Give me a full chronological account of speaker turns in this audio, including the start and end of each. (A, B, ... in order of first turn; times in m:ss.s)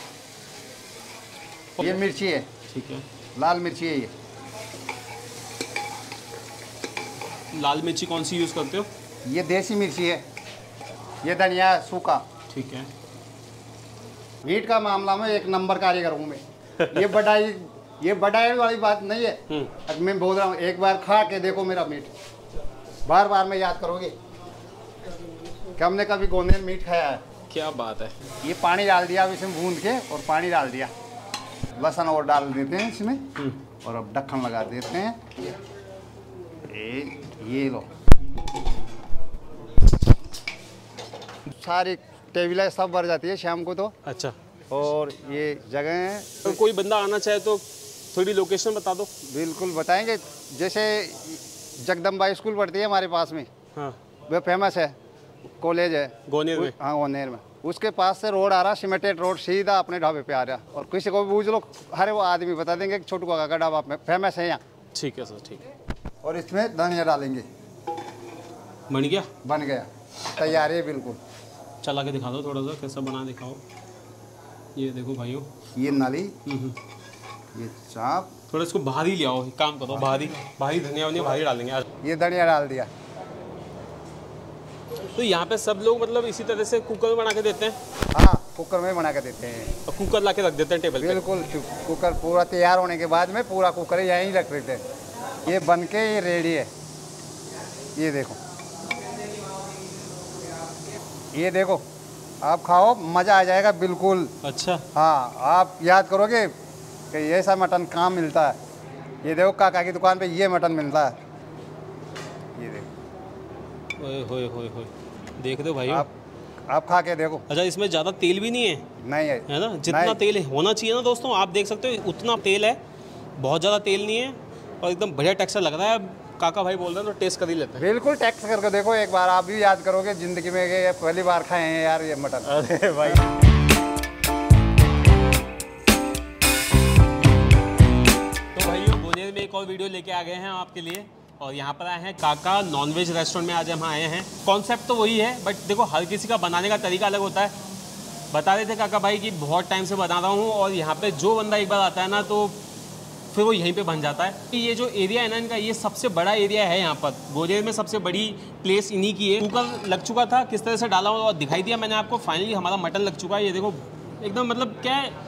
0:01.8-0:02.0 A
0:01.8-0:02.5 B
0:02.7-0:03.0 A
0:03.4-0:04.1 B
0:07.5-0:08.9 A
0:09.2-0:10.2 B
0:11.2-0:12.2 B
0:12.5-0:12.9 A
0:14.4-0:22.1 B
0:16.8-0:17.1 A
0:23.0-0:24.1 B
0:25.8-0:27.2 B
0:27.5-0:28.2 A
0:28.4-0:30.9 B
0:31.8-0:33.3 B
0:33.8-0:35.3 B
0:36.7-0:37.9 B
0:41.5-0:44.0 B
0:44.0-0:44.4 A
0:44.7-0:46.6 B
0:46.4-0:49.1 A
0:49.2-0:53.5 B
0:54.3-0:54.9 B
0:55.5-1:04.6 B
0:56.3-0:56.7 A
1:04.9-1:05.6 A
1:06.2-1:07.4 B
1:08.9-1:09.3 A
1:09.4-1:11.2 B
1:10.3-1:10.7 A
1:11.8-1:13.6 A
1:14.7-1:15.5 A
1:15.7-1:16.4 B
1:16.4-1:16.8 A
1:17.5-1:18.3 B
1:18.5-1:21.8 A
1:22.0-1:22.9 B
1:25.0-1:27.8 A
1:28.1-1:29.7 B
1:29.8-1:31.2 A
1:31.0-1:34.8 B
1:35.4-1:36.7 B
1:38.0-1:38.4 B
1:41.3-1:41.8 B
1:42.4-1:44.3 B
1:44.4-1:44.9 A
1:44.9-1:46.5 B
1:47.1-1:48.6 B
1:49.2-1:51.2 B
1:52.5-1:52.9 B
1:54.0-1:56.1 A
1:56.7-1:57.4 B
1:57.5-1:58.8 A
1:59.0-2:00.2 B
1:59.5-2:02.8 A
2:03.4-2:07.9 A
2:07.8-2:12.5 B
2:12.4-2:13.4 A
2:18.5-2:27.6 A
2:28.3-2:32.6 A
2:33.3-2:45.1 A